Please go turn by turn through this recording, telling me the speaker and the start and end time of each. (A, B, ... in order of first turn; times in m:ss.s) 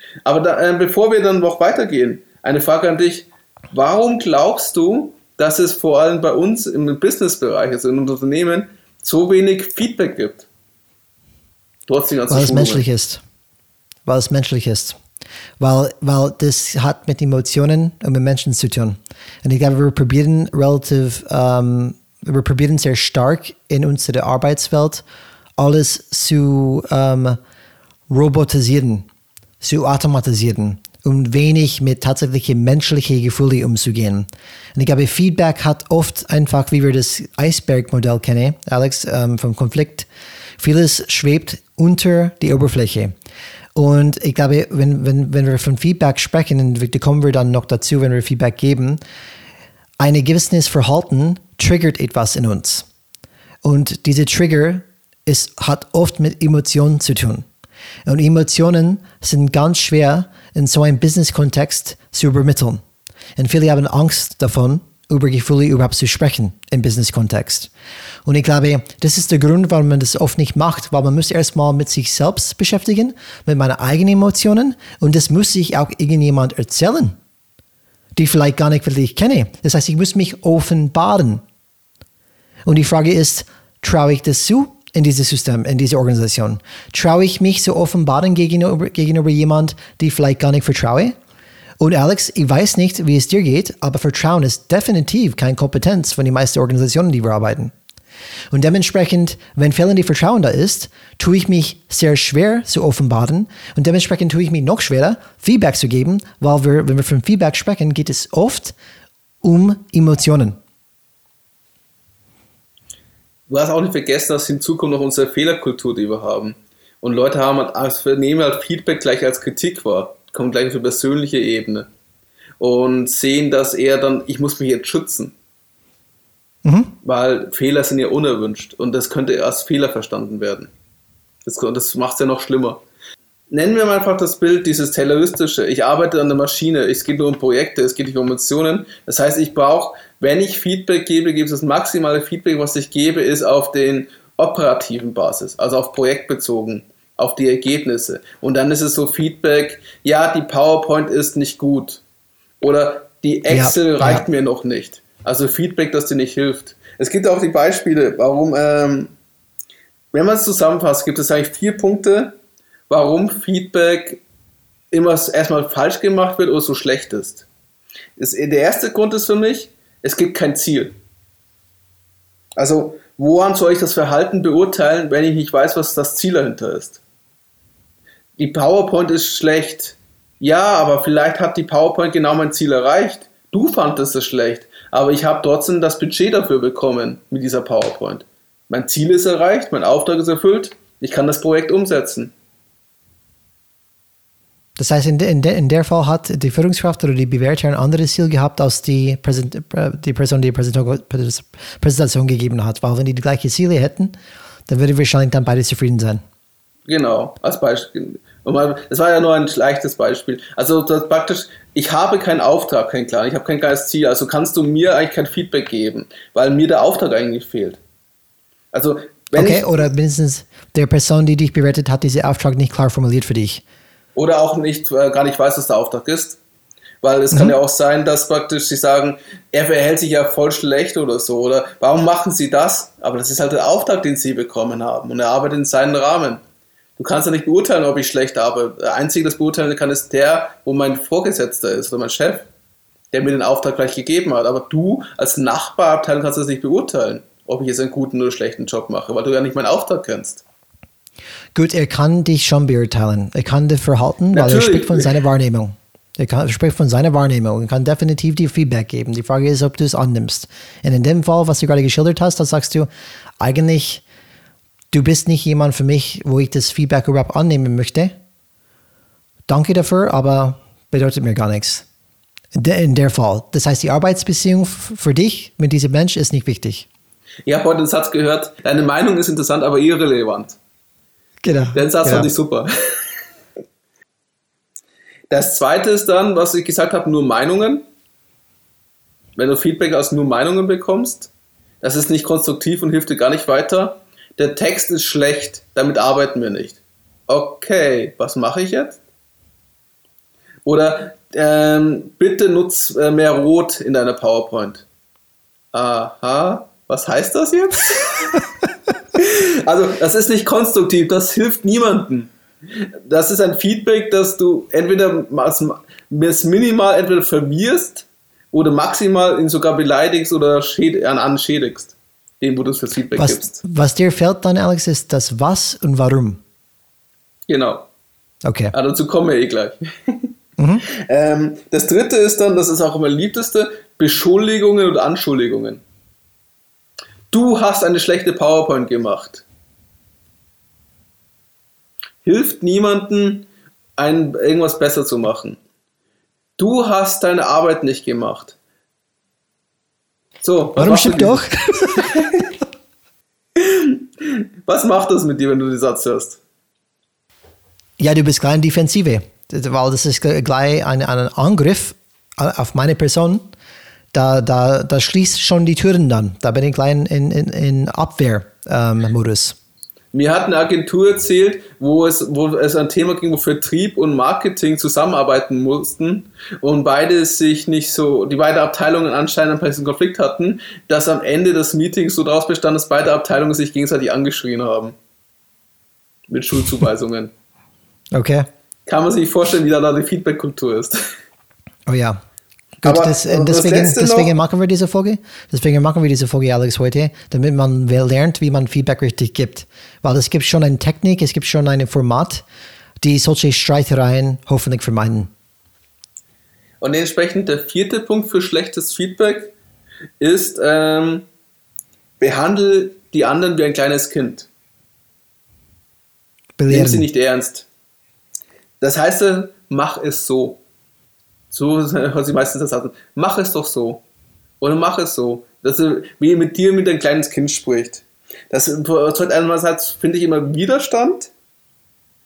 0:00.2-0:10.5 A
0:11.9-0:12.8 A
0:12.3-0:13.2 B
0:14.0-0:15.0 B
0:15.6-0:25.0 B
0:25.6-0:27.4 B
0:28.1-0:29.0 B
0:29.6-0:40.1 B
0:40.6-0:43.1 B
0:43.8-0:49.0 B
0:50.0-0:52.8 B
0:53.6-0:57.4 B
0:58.0-1:02.8 B
1:03.4-1:07.7 B
1:08.2-1:17.2 B
1:18.2-1:21.4 B
1:22.6-1:31.1 B
1:31.8-1:37.7 B
1:38.5-1:48.7 B
1:49.4-1:50.6 B
1:53.5-2:01.9 A
2:02.6-2:05.3 A
2:06.6-2:06.9 B
2:07.0-2:10.7 A
2:11.4-2:12.8 A
2:13.5-2:32.0 A
2:32.6-2:39.1 A
2:33.5-2:34.2 B
2:40.1-2:42.4 A
2:42.9-2:44.2 A
2:44.9-2:47.4 A
2:48.2-2:51.0 A
2:52.6-2:57.0 A
2:58.4-3:12.3 A
3:14.8-3:24.2 B
3:24.7-3:26.2 B
3:26.8-3:37.8 A
3:38.7-3:39.6 A
3:39.3-3:43.6 B
3:44.1-3:46.4 A
3:47.0-3:56.4 A
3:57.0-4:02.5 A
4:03.1-4:10.4 A
4:11.5-4:22.9 B
4:14.3-4:15.1 A
4:23.4-4:24.0 B
4:24.9-4:28.1 B
4:29.5-4:31.8 B
4:32.5-4:36.9 B
4:37.4-4:40.6 A
4:41.4-4:42.3 B
4:41.7-4:42.7 A
4:45.3-4:47.8 A
4:49.4-4:51.3 A
4:51.8-4:59.0 A
5:00.6-5:04.8 A
5:05.7-5:08.4 A
5:09.1-5:23.6 A
5:23.1-5:26.4 B
5:27.5-5:27.8 A
5:28.4-5:28.7 B
5:28.7-5:30.3 A
5:30.6-5:30.8 B
5:30.9-5:35.8 A
5:37.3-5:39.4 A
5:42.2-5:45.6 A
5:46.6-5:48.6 A
5:50.4-5:51.5 A
5:50.8-5:52.1 B
5:52.0-5:52.5 A
5:53.5-5:56.4 A
5:58.0-6:03.4 B
6:04.1-6:09.6 B
6:10.1-6:24.9 A
6:26.3-6:27.3 A
6:28.1-6:28.5 B
6:28.8-6:31.0 A
6:31.9-6:32.2 B
6:32.8-6:42.4 B
6:32.8-6:34.3 A
6:43.0-6:45.3 B
6:46.8-6:49.5 A
6:50.2-6:51.2 A
6:52.2-6:54.5 A
6:56.6-6:57.1 B
6:56.7-6:57.7 A
6:58.8-7:00.6 A
7:01.5-7:04.0 A
7:04.6-7:11.3 A